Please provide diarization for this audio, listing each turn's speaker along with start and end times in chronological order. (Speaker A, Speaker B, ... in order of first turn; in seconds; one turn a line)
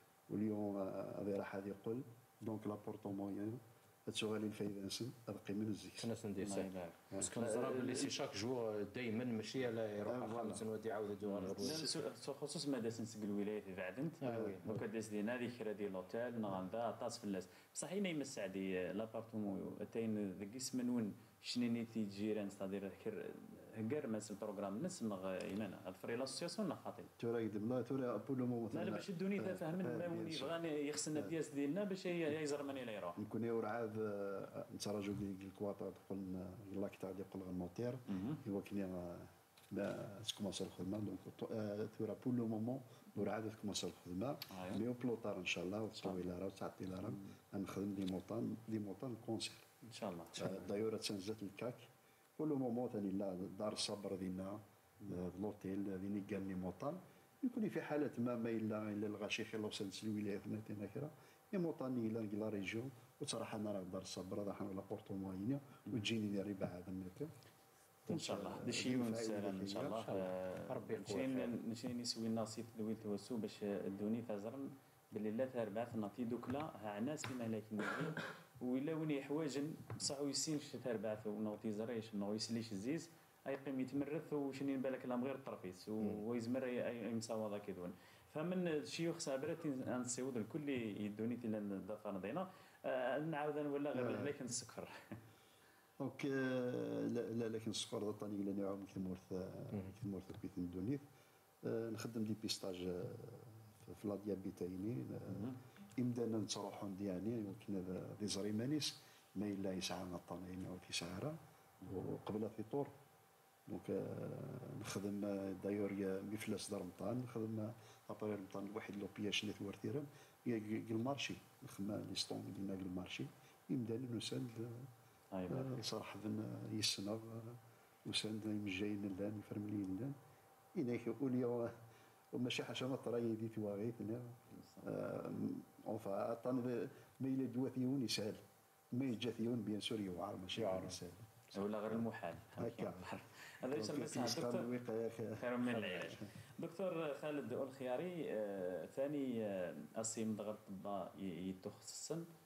Speaker A: 0.3-6.1
Speaker B: 6.0-11.8
Speaker C: 6.4-8.1
Speaker A: 10.1-10.6
Speaker C: 11.2-27.1
Speaker A: 11.6-11.9
Speaker B: 14.2-14.8
Speaker A: 27.2-30.6
Speaker C: 28.7-33.2
Speaker A: 33.2-49.7
Speaker C: 38.1-38.4
Speaker C: 44.5-44.8
Speaker C: 49.9-50.6
Speaker A: 50.4-67.3
Speaker A: 68.0-70.0
Speaker C: 68.1-95.1
Speaker B: 69.9-71.5
Speaker A: 93.9-94.3
Speaker A: 96.0-101.0
Speaker A: 101.6-112.9
Speaker C: 105.3-105.6
Speaker A: 113.7-124.9
Speaker C: 125.3-125.8
Speaker A: 125.5-130.2
Speaker A: 130.7-131.7
Speaker A: 132.3-138.4
Speaker A: 138.9-141.3
Speaker C: 141.5-144.7
Speaker A: 142.6-143.1
Speaker A: 143.7-146.3
Speaker C: 145.4-152.2